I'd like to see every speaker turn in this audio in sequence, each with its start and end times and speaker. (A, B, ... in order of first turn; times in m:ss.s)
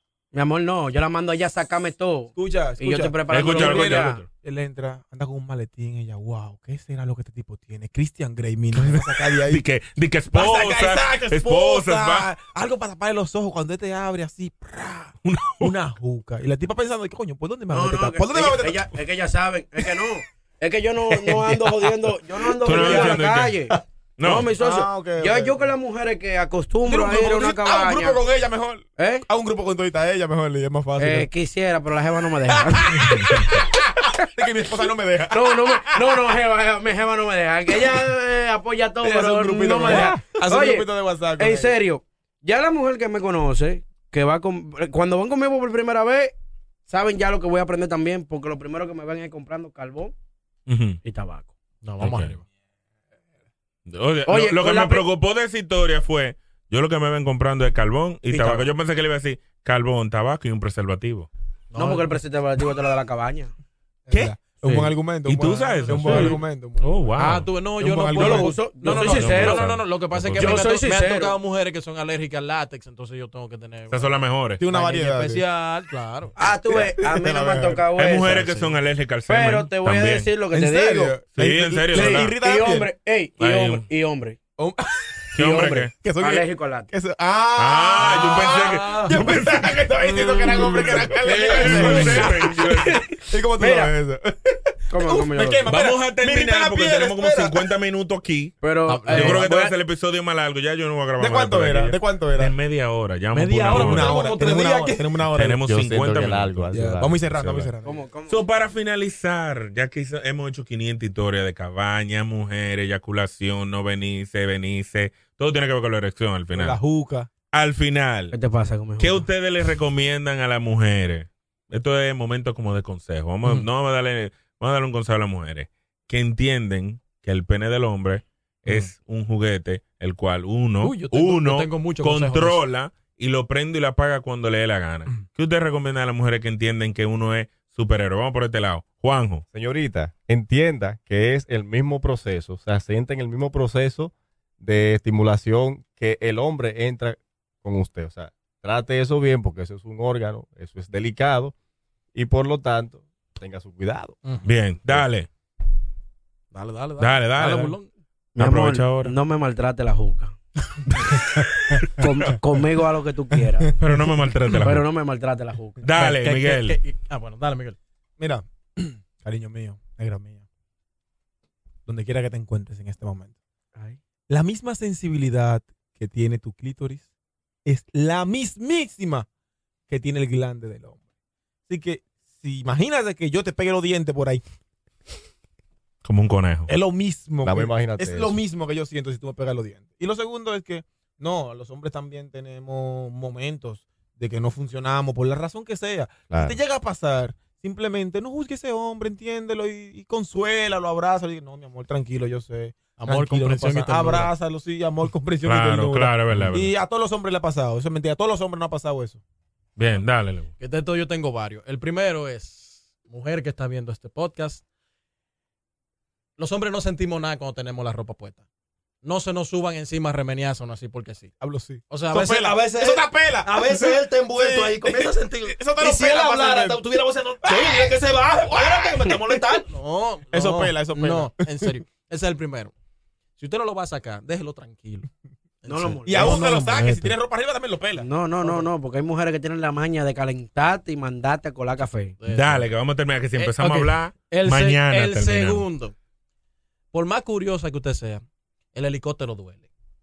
0:00.3-0:04.2 A
0:02.3-0:09.6 B
0:03.3-0:04.2 C
0:08.7-0:12.3 C
0:10.3-0:18.9 B
0:15.2-0:15.7 C
0:17.7-0:28.2 A
0:22.5-0:23.2 B
0:22.6-0:23.6 C
0:24.2-0:24.5 C
0:24.6-0:25.7 B
0:26.8-0:31.3 B
0:29.0-0:29.2 A
0:31.0-0:33.2 A
0:32.6-0:36.1 B
0:35.3-0:46.3 A
0:39.0-0:41.7 B
0:46.9-0:50.1 A
0:50.7-0:51.0 C
0:51.0-0:51.5 A
0:51.8-0:52.4 D
0:52.0-0:52.3 C
0:53.9-1:01.3 C
0:54.3-0:55.0 A
0:58.3-0:58.7 A
1:01.7-1:02.2 D
1:01.7-1:03.5 A
1:04.1-1:07.2 B
1:05.2-1:07.5 C
1:05.9-1:06.4 D
1:07.2-1:16.3 D
1:07.8-1:09.0 B
1:08.1-1:09.6 A
1:08.9-1:10.7 C
1:10.4-1:11.3 A
1:13.9-1:14.6 C
1:14.6-1:15.4 B
1:16.4-1:18.7 A
1:16.7-1:17.8 B
1:18.0-1:20.3 C
1:19.3-1:21.2 A
1:20.5-1:22.9 B
1:21.4-1:22.3 C
1:21.9-1:24.4 A
1:23.4-1:23.8 C
1:24.6-1:25.2 B
1:25.3-1:25.9 C
1:25.4-1:26.9 A
1:26.0-1:32.6 B
1:27.6-1:29.9 C
1:28.1-1:29.3 D
1:30.1-1:32.4 D
1:30.8-1:33.0 C
1:31.7-1:33.9 A
1:33.2-1:37.6 B
1:34.9-1:35.7 A
1:35.7-1:44.2 C
1:38.6-1:39.7 A
1:38.9-1:39.5 D
1:41.2-1:42.5 B
1:43.3-1:45.1 D
1:43.7-1:45.6 B
1:45.3-1:46.7 C
1:45.6-1:47.7 E
1:46.7-1:48.0 B
1:47.8-1:48.4 A
1:48.3-1:56.8 C
1:56.5-1:57.3 B
1:57.5-1:58.4 C
1:58.3-1:59.3 A
1:59.0-2:19.4 C
2:10.8-2:12.6 D
2:19.5-2:31.5 E
2:32.1-2:34.2 E
2:34.2-2:34.5 D
2:34.4-2:35.3 C
2:36.5-2:37.9 D
2:37.0-2:37.8 C
2:38.3-2:40.3 A
2:38.4-2:39.1 C
2:42.0-2:43.7 A
2:43.8-2:44.9 C
2:44.5-2:45.8 A
2:45.8-2:46.8 C
2:46.0-2:47.8 D
2:48.2-2:50.4 B
2:51.9-2:53.3 B
2:54.3-2:57.1 B
2:57.6-2:59.2 B
2:59.9-3:01.0 B
3:01.7-3:04.4 B
3:06.0-3:06.7 C
3:06.7-3:29.2 B
3:07.4-3:08.4 E
3:16.3-3:16.6 E
3:23.0-3:24.3 D
3:25.4-3:26.7 C
3:29.8-3:30.5 C
3:30.6-3:34.6 D
3:36.4-3:38.4 D
3:39.0-3:41.3 D
3:41.4-3:49.6 B
3:41.9-3:52.7 D
3:50.3-3:51.8 B
3:53.4-3:55.1 D
3:55.6-3:57.1 D
3:55.7-3:56.3 A
3:56.0-3:58.1 B
3:58.0-4:02.2 A
4:02.2-4:02.7 D
4:02.3-4:05.6 C
4:03.4-4:05.9 D
4:06.9-4:09.7 D